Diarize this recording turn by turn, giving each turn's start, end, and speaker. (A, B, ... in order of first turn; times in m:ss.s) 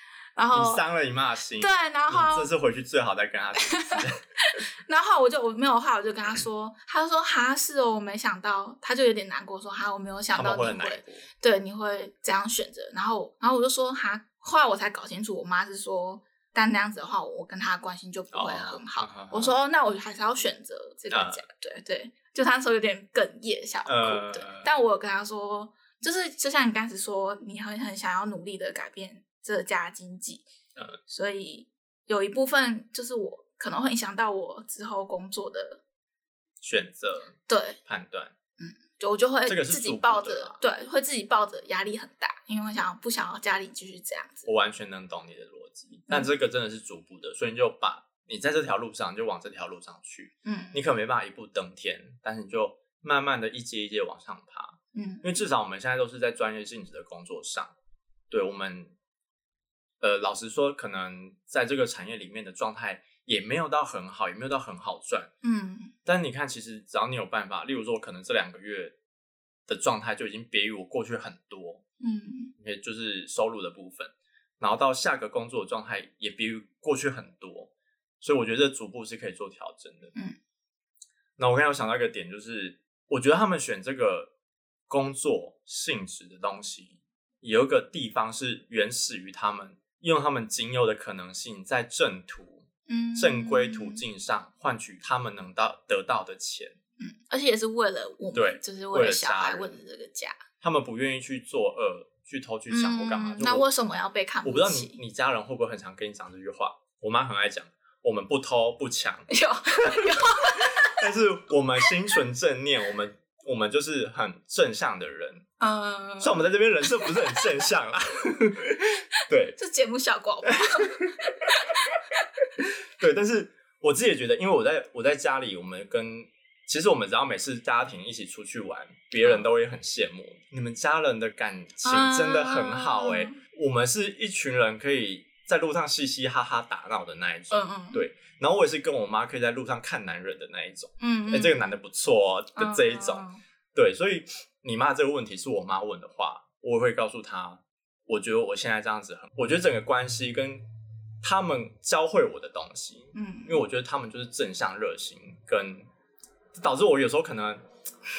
0:00.4-0:00.8 A
0:00.5-0:04.2 B
0:01.6-0:02.5 A
0:03.6-0:30.5 A
0:10.3-0:11.2 B
0:18.3-0:19.6 B
0:21.1-0:21.4 B
0:23.9-0:24.7 B
0:31.1-0:35.8 A
0:36.6-0:38.3 B
0:37.5-0:37.8 A
0:38.6-0:44.5 A
0:39.5-0:40.6 B
0:44.5-0:57.7 B
0:50.4-0:50.8 A
0:55.0-0:55.3 A
0:58.3-0:58.9 B
1:00.0-1:05.3 B
1:05.4-1:05.9 A
1:06.0-1:09.0 B
1:09.7-1:11.8 B
1:12.0-1:12.5 A
1:12.6-1:17.7 B
1:18.2-1:20.1 B
1:21.4-1:24.3 B
1:24.9-1:36.8 B
1:32.9-1:34.0 A
1:37.0-1:40.4 A
1:38.3-1:39.8 B
1:40.6-1:43.7 B
1:42.7-1:45.0 A
1:44.4-1:49.3 B
1:49.3-1:51.0 A
1:49.8-1:55.4 B
1:55.6-1:57.5 A
1:56.2-1:59.6 B
1:59.6-2:02.2 A
2:00.5-2:01.5 B
2:02.6-2:30.6 B
2:09.2-2:09.5 A
2:11.8-2:13.4 A
2:17.5-2:18.1 A
2:21.0-2:21.8 A
2:22.6-2:23.4 A
2:31.2-2:35.9 B
2:33.1-2:33.6 A
2:36.6-2:37.6 B